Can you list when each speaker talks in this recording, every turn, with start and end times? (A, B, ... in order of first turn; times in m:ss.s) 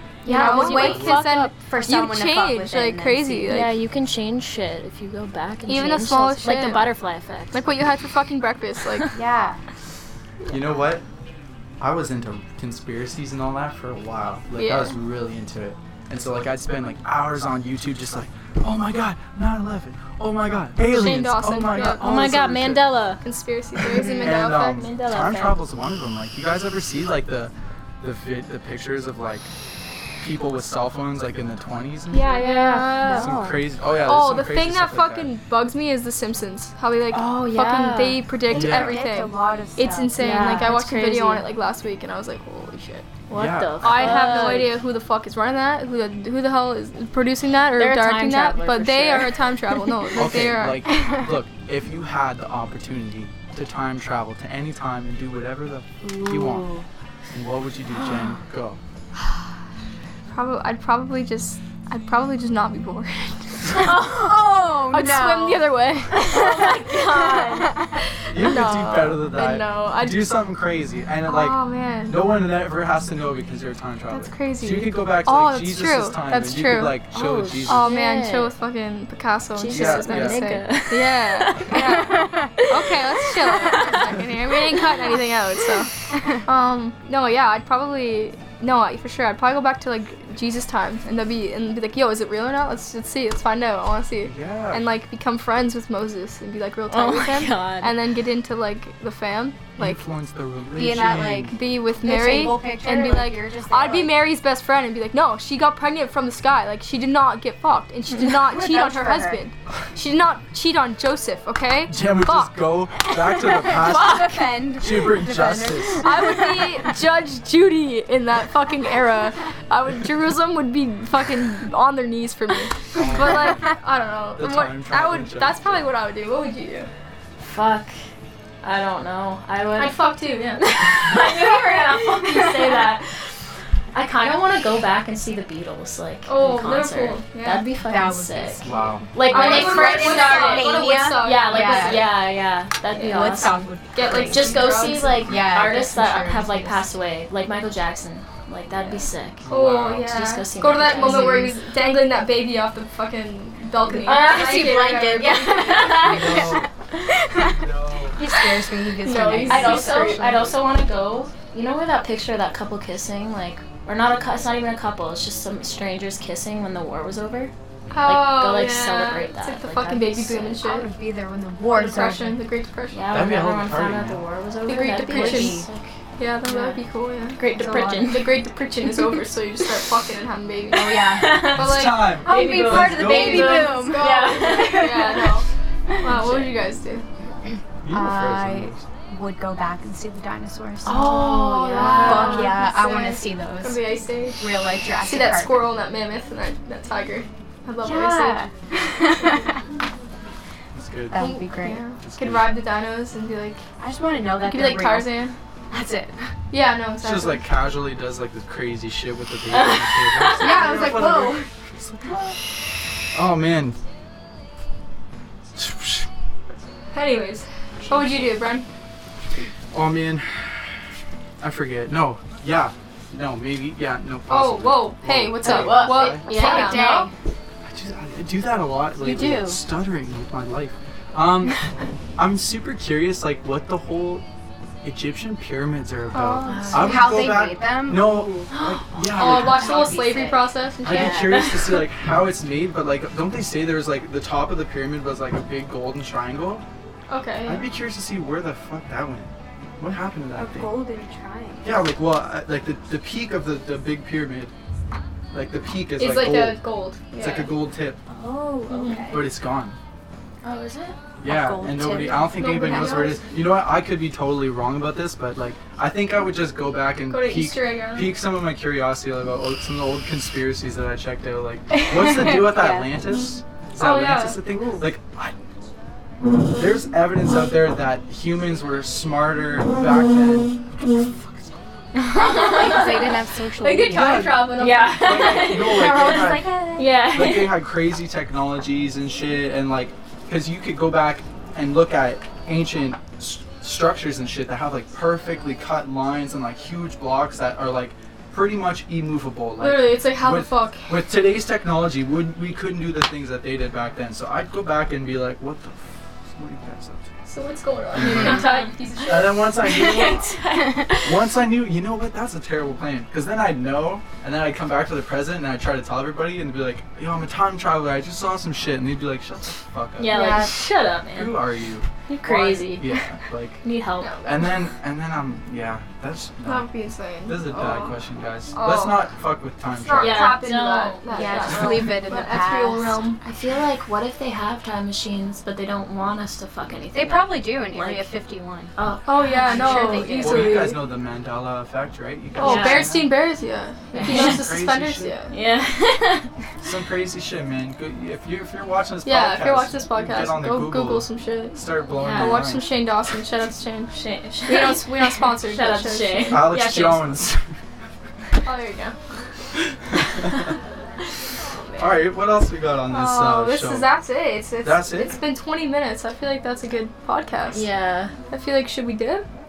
0:00.2-0:01.5 A
0:00.2-0:03.6 B
0:00.2-0:03.8 C
0:00.7-0:01.1 D
0:03.5-0:07.6 A
0:05.7-0:06.9 C
0:07.5-0:09.1 C
0:09.1-0:09.6 B
0:10.5-0:11.0 D
0:11.8-0:22.9 D
0:14.5-0:14.9 C
0:20.8-0:22.1 C
0:21.8-0:23.2 A
0:23.2-0:24.8 C
0:24.0-0:24.3 B
0:24.1-0:25.6 A
0:24.2-0:29.5 D
0:30.2-0:32.4 D
0:32.1-0:33.3 C
0:32.4-0:33.3 A
0:33.0-0:33.6 B
0:33.0-0:35.3 D
0:34.0-0:43.1 C
0:37.1-0:38.3 A
0:38.5-0:40.7 B
0:38.5-0:39.0 D
0:40.2-0:41.4 A
0:43.3-0:44.8 A
0:43.3-0:44.5 D
0:43.8-0:50.8 C
0:47.7-0:49.9 A
0:50.2-0:56.7 D
0:56.0-0:56.8 B
0:57.3-0:58.8 D
1:00.3-1:04.0 C
1:03.8-1:04.3 A
1:04.0-1:05.7 B
1:04.9-1:06.5 C
1:06.2-1:07.8 A
1:06.3-1:07.9 B
1:08.3-1:17.9 D
1:08.3-1:10.3 C
1:11.2-1:12.2 C
1:14.1-1:17.0 C
1:17.1-1:18.5 A
1:17.7-1:25.9 C
1:19.6-1:24.1 A
1:19.7-1:20.5 D
1:21.7-1:22.5 B
1:26.4-1:40.0 C
1:34.2-1:34.8 D
1:36.9-1:37.9 A
1:39.8-1:41.6 D
1:40.7-1:44.1 B
1:41.5-1:52.5 C
1:48.3-1:49.4 B
1:51.9-1:56.0 D
1:53.4-1:56.9 B
1:53.7-1:54.5 A
1:56.0-2:06.9 C
2:02.9-2:03.6 D
2:04.4-2:05.9 D
2:07.4-2:07.9 A
2:08.6-2:10.0 A
2:09.8-2:11.2 C
2:10.6-2:13.3 A
2:13.9-2:18.6 A
2:16.2-2:17.7 C
2:17.8-2:22.1 B
2:18.6-2:19.1 D
2:19.1-2:29.4 A
2:19.3-2:22.0 C
2:23.0-2:25.5 C
2:23.0-2:27.0 B
2:28.8-2:29.0 B
2:29.4-2:30.1 D
2:29.4-2:36.1 C
2:30.0-2:31.6 A
2:30.9-2:31.6 B
2:33.9-2:36.6 A
2:34.0-2:36.6 B
2:36.0-2:36.7 D
2:37.3-2:40.6 B
2:37.4-2:38.2 D
2:39.0-2:40.3 C
2:39.4-2:47.5 A
2:47.9-2:50.9 C
2:48.0-2:50.6 A
2:50.6-2:52.4 B
2:51.7-2:53.1 C
2:52.9-2:55.9 A
2:53.1-2:54.2 D
2:54.6-2:55.6 C
2:55.1-2:55.7 B
2:56.2-3:02.1 C
2:56.4-2:56.8 B
2:57.4-2:58.3 A
2:57.6-2:58.0 B
3:00.7-3:01.5 B
3:00.9-3:05.2 A
3:01.5-3:03.6 D
3:02.2-3:05.4 B
3:03.1-3:05.4 C
3:06.0-3:07.0 C
3:06.1-3:06.5 A
3:07.8-3:08.9 D
3:07.9-3:15.6 B
3:10.8-3:12.6 A
3:11.0-3:19.6 C
3:17.8-3:19.6 B
3:20.7-3:21.4 D
3:21.1-3:21.8 B
3:21.2-3:23.6 C
3:22.0-3:22.5 D
3:23.8-3:26.3 B
3:24.4-3:25.3 C
3:26.5-3:27.5 C
3:27.0-3:32.4 D
3:29.5-3:31.2 A
3:30.3-3:31.5 B
3:33.1-3:33.8 D
3:35.6-3:36.1 D
3:36.9-3:38.6 C
3:39.7-3:40.7 D
3:41.4-3:46.3 D
3:44.3-3:47.0 C
3:45.4-3:47.1 B
3:45.7-3:47.1 A
3:47.6-3:54.2 D
3:49.0-3:49.6 B
3:54.8-3:59.7 D
3:56.2-3:58.4 B
3:56.4-3:57.3 A
3:58.5-3:58.9 A
3:59.1-4:00.5 B
3:59.1-4:01.4 C
4:00.8-4:06.6 D
4:00.9-4:01.8 A
4:07.1-4:07.7 C
4:07.4-4:10.7 D
4:10.3-4:11.7 B
4:11.6-4:14.5 D
4:15.3-4:16.6 D
4:16.0-4:17.5 C
4:17.1-4:18.0 D
4:18.1-4:19.3 B
4:18.7-4:19.0 C
4:19.1-4:19.8 D
4:20.4-4:21.0 A
4:21.2-4:35.4 D
4:21.2-4:23.0 B
4:22.3-4:23.2 C
4:27.0-4:28.1 C
4:31.9-4:32.9 B
4:33.8-4:34.4 C
4:36.5-4:40.5 D
4:42.0-4:44.4 B
4:43.6-4:45.5 C
4:43.9-4:46.5 D
4:44.5-4:47.6 A
4:45.6-4:46.9 B
4:47.1-5:07.1 D
4:59.6-5:00.9 C
5:07.2-5:09.5 C
5:07.9-5:08.4 D
5:08.0-5:08.4 B
5:08.4-5:08.6 A
5:09.0-5:10.3 D
5:09.6-5:11.2 A
5:10.9-5:20.2 D
5:20.0-5:21.4 A
5:20.1-5:20.5 B
5:21.1-5:23.6 D
5:22.1-5:23.0 A
5:23.6-5:24.1 A
5:24.0-5:24.4 C
5:24.2-5:26.7 D
5:26.4-5:28.0 C
5:27.2-5:30.4 D
5:28.5-5:29.1 C
5:29.7-5:33.2 C
5:29.9-5:31.9 A
5:31.1-5:32.9 B
5:33.2-5:40.5 A
5:36.9-5:38.7 B
5:39.0-5:40.8 C
5:39.3-5:40.4 B
5:39.7-5:43.1 D
5:42.4-5:45.3 C
5:42.4-5:42.9 A
5:43.9-5:44.4 A
5:44.0-5:45.2 D
5:45.3-5:46.3 A
5:46.6-5:52.7 D
5:49.0-5:53.9 C
5:52.0-5:52.5 A
5:53.9-5:57.2 A
5:54.4-5:56.5 C
5:56.3-5:57.5 D
5:58.4-5:59.0 C
6:00.0-6:00.5 D
6:01.8-6:03.9 D
6:02.9-6:07.6 C
6:04.6-6:05.1 D
6:07.5-6:08.1 A
6:08.3-6:09.2 C